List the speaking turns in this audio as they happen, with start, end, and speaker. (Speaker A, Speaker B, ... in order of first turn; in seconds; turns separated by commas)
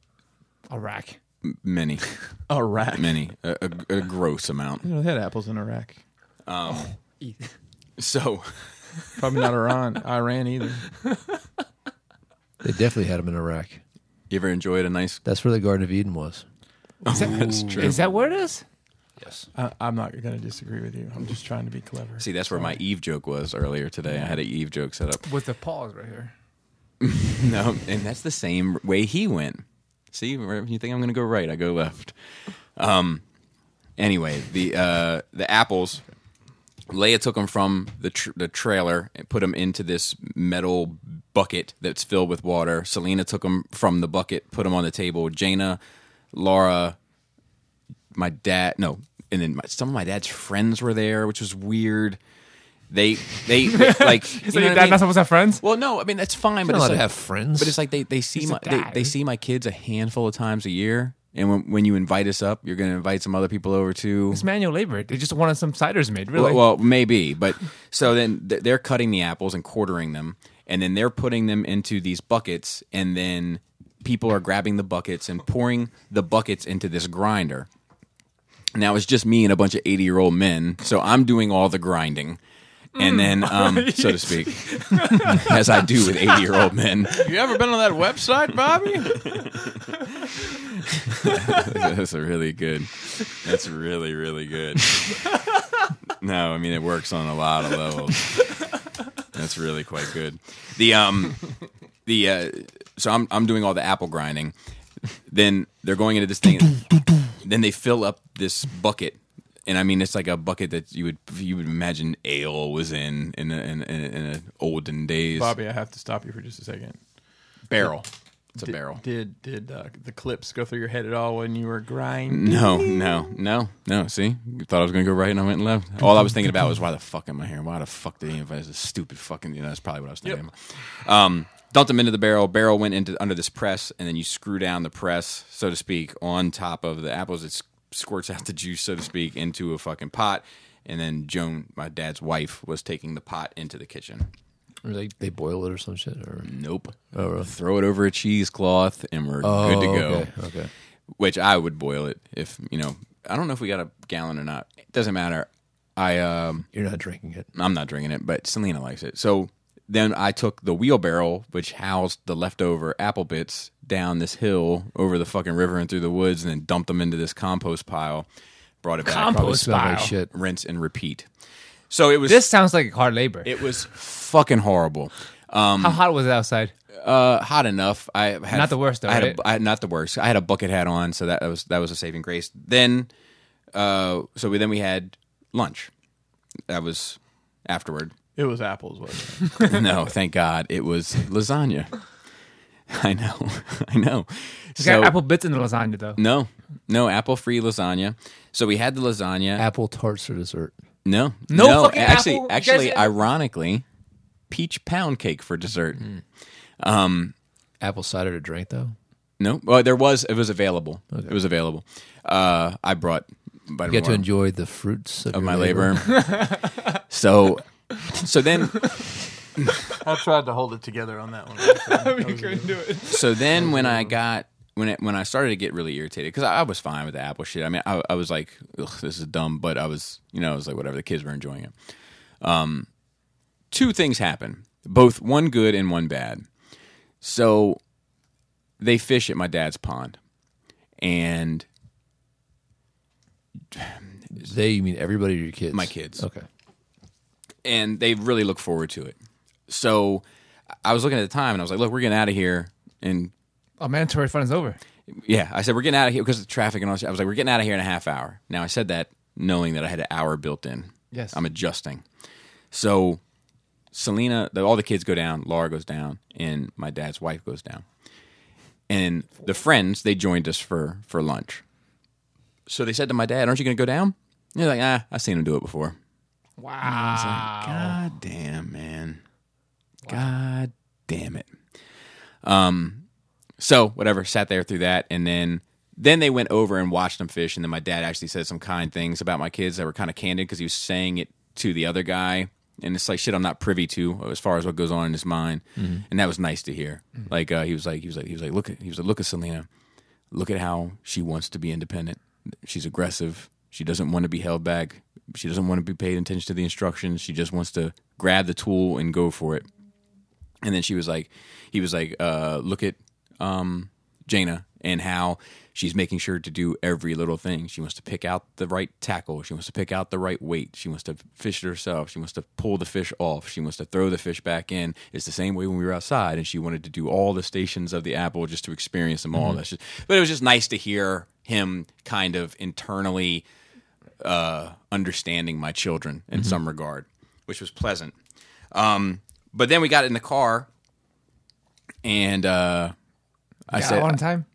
Speaker A: 0.7-1.2, Speaker B: 1.4-2.1, Speaker C: 2.5-3.1, Speaker B: 2.9-4.9, Speaker C: 4.8-6.0, Speaker B: 6.5-7.0, Speaker A: 7.2-7.5, Speaker B: 8.0-8.7, Speaker C: 9.2-10.9, Speaker A: 11.1-11.4, Speaker D: 12.6-13.8, Speaker B: 14.3-15.2, Speaker D: 15.2-16.4, Speaker B: 17.0-18.0, Speaker A: 17.1-18.6, Speaker D: 19.2-19.5, Speaker C: 19.5-22.8, Speaker B: 22.2-25.3, Speaker A: 25.3-26.3, Speaker B: 27.0-32.1, Speaker B: 32.8-33.2, Speaker B: 34.0-36.0, Speaker B: 36.9-45.8, Speaker B: 46.3-47.0, Speaker B: 48.1-52.2, Speaker B: 52.9-64.5, Speaker A: 53.7-55.6, Speaker D: 56.6-57.8, Speaker A: 58.4-59.1, Speaker A: 64.3-66.6, Speaker B: 66.3-77.7, Speaker B: 78.7-82.4, Speaker A: 83.0-86.6, Speaker B: 83.0-87.3, Speaker C: 87.2-89.5, Speaker B: 89.2-89.6, Speaker B: 91.1-95.3, Speaker B: 96.2-98.6, Speaker B: 99.3-101.5, Speaker B: 102.1-104.5, Speaker B: 105.3-115.6, Speaker C: 115.3-117.0, Speaker B: 117.7-119.0, Speaker C: 118.6-123.2, Speaker B: 122.3-144.3, Speaker D: 144.8-146.5, Speaker B: 146.4-150.3, Speaker D: 147.1-147.5, Speaker D: 149.4-150.7, Speaker B: 151.2-156.7, Speaker D: 156.7-157.5, Speaker B: 157.6-168.3, Speaker B: 168.8-171.3, Speaker A: 169.0-170.1, Speaker D: 169.3-170.3, Speaker B: 171.9-172.5, Speaker A: 172.3-173.6, Speaker B: 173.4-176.0, Speaker A: 175.8-176.7, Speaker B: 177.0-183.1, Speaker A: 178.5-179.4, Speaker B: 183.7-185.9, Speaker B: 186.7-188.1, Speaker C: 188.4-189.6, Speaker B: 189.6-192.0, Speaker B: 192.9-195.2, Speaker A: 194.8-196.2, Speaker B: 196.2-199.7, Speaker D: 199.6-200.7, Speaker B: 201.1-203.8, Speaker A: 201.5-203.1, Speaker B: 204.5-206.2, Speaker B: 206.8-207.3, Speaker D: 207.8-208.9, Speaker B: 209.4-214.3, Speaker D: 213.9-216.1, Speaker B: 215.3-216.4, Speaker A: 216.1-216.9, Speaker B: 217.1-219.8, Speaker C: 220.0-222.8, Speaker A: 221.8-223.4, Speaker B: 223.1-231.7, Speaker C: 223.6-224.1, Speaker B: 232.4-232.9, Speaker B: 233.7-236.4, Speaker B: 237.2-237.8, Speaker B: 238.8-240.2, Speaker B: 241.0-241.7, Speaker D: 244.4-246.4, Speaker B: 245.7-246.2, Speaker B: 247.6-249.2, Speaker B: 249.7-250.2, Speaker B: 250.8-253.3, Speaker A: 253.8-254.8, Speaker B: 255.1-262.0, Speaker A: 261.1-261.4, Speaker B: 262.7-263.2, Speaker B: 263.9-267.9, Speaker B: 268.9-271.6, Speaker B: 272.7-276.0, Speaker A: 276.6-278.0, Speaker B: 276.8-279.2, Speaker B: 280.1-281.5, Speaker B: 282.4-283.0, Speaker B: 283.6-299.7, Speaker D: 295.8-296.0, Speaker B: 300.3-309.7, Speaker B: 310.6-333.4, Speaker B: 334.2-338.1, Speaker B: 338.7-340.7, Speaker B: 342.0-342.9, Speaker B: 343.7-344.2, Speaker A: 343.7-344.5